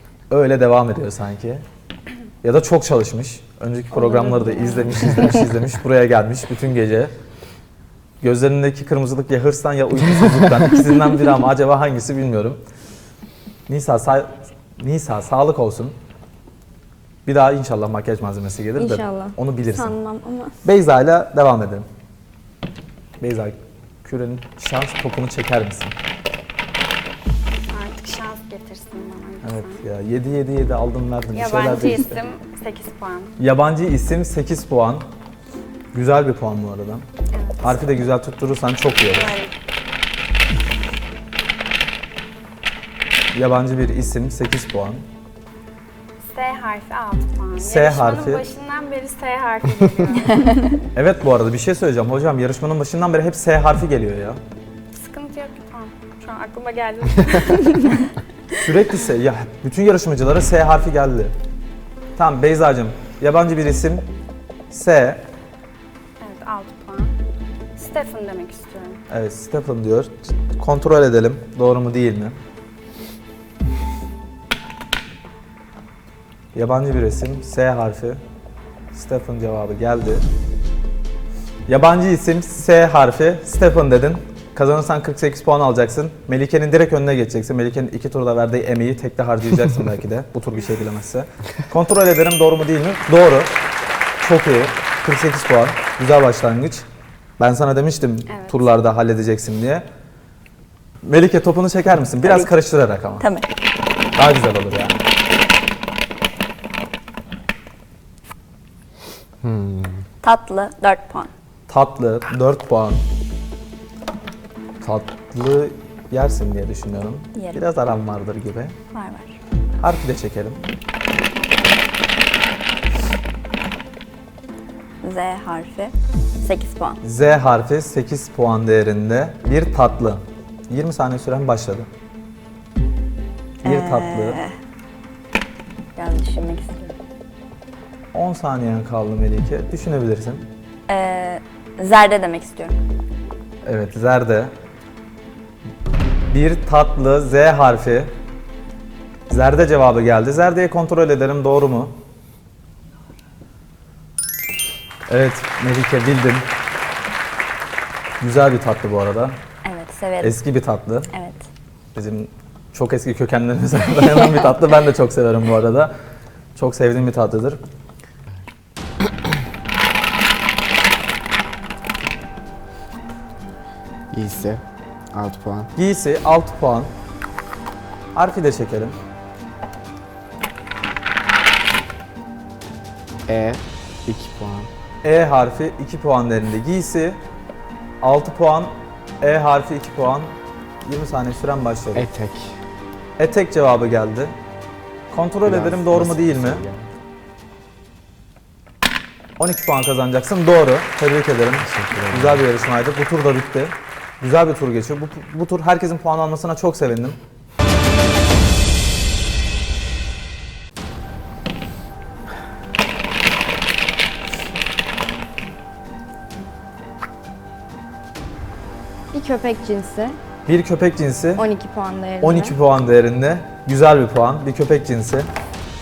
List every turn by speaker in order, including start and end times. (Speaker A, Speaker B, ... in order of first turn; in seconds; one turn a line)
Speaker A: 0.3-1.6
Speaker A: 2.4-7.1
Speaker B: 4.0-5.1
Speaker A: 8.2-12.6
Speaker A: 13.7-16.0
Speaker A: 17.2-19.9
Speaker B: 18.8-20.6
Speaker A: 20.6-21.9
Speaker A: 23.2-26.0
Speaker C: 27.7-29.9
Speaker A: 29.4-32.2
Speaker C: 31.3-33.4
Speaker A: 33.4-35.1
Speaker A: 35.9-37.0
Speaker C: 37.3-37.9
Speaker A: 37.6-39.4
Speaker C: 39.1-39.5
Speaker A: 43.3-45.0
Speaker C: 46.2-50.7
Speaker A: 47.6-48.5
Speaker A: 50.9-54.4
Speaker C: 54.9-58.1
Speaker A: 58.5-61.3
Speaker A: 62.2-64.1
Speaker A: 64.7-65.2
Speaker C: 66.2-67.1
Speaker C: 67.8-69.0
Speaker A: 69.1-72.4
Speaker A: 76.5-78.2
Speaker A: 78.9-80.2
Speaker A: 81.7-93.5
Speaker A: 94.2-96.9
Speaker A: 97.4-99.8
Speaker C: 98.3-98.7
Speaker A: 101.0-103.3
Speaker D: 102.2-102.5
Speaker D: 103.2-103.5
Speaker A: 104.2-105.0
Speaker E: 109.4-110.0
Speaker D: 110.2-111.3
Speaker A: 111.7-113.0
Speaker A: 114.8-118.8
Speaker D: 117.3-117.6
Speaker D: 118.9-119.3
Speaker A: 119.8-120.6
Speaker D: 125.0-127.0
Speaker A: 127.0-131.9
Speaker A: 133.6-134.4
Speaker D: 133.6-134.6
Speaker D: 136.0-137.0
Speaker A: 138.1-140.4
Speaker D: 140.9-142.8
Speaker A: 143.7-144.5
Speaker A: 146.3-148.1
Speaker A: 149.3-151.9
Speaker A: 155.1-156.5
Speaker A: 158.2-159.4
Speaker D: 159.7-160.4
Speaker A: 160.2-161.1
Speaker D: 161.1-161.4
Speaker A: 161.9-165.9
Speaker D: 164.0-164.3
Speaker A: 166.6-167.6
Speaker E: 174.1-175.7
Speaker A: 175.8-176.9
Speaker A: 178.2-179.0
Speaker E: 183.3-184.7
Speaker A: 185.0-187.2
Speaker A: 188.0-192.1
Speaker E: 191.9-192.6
Speaker A: 193.2-194.3
Speaker A: 195.1-196.6
Speaker E: 195.4-196.9
Speaker A: 199.4-207.2
Speaker E: 201.6-202.4
Speaker B: 219.1-220.2
Speaker A: 220.5-221.4
Speaker B: 221.4-222.6
Speaker A: 222.2-225.3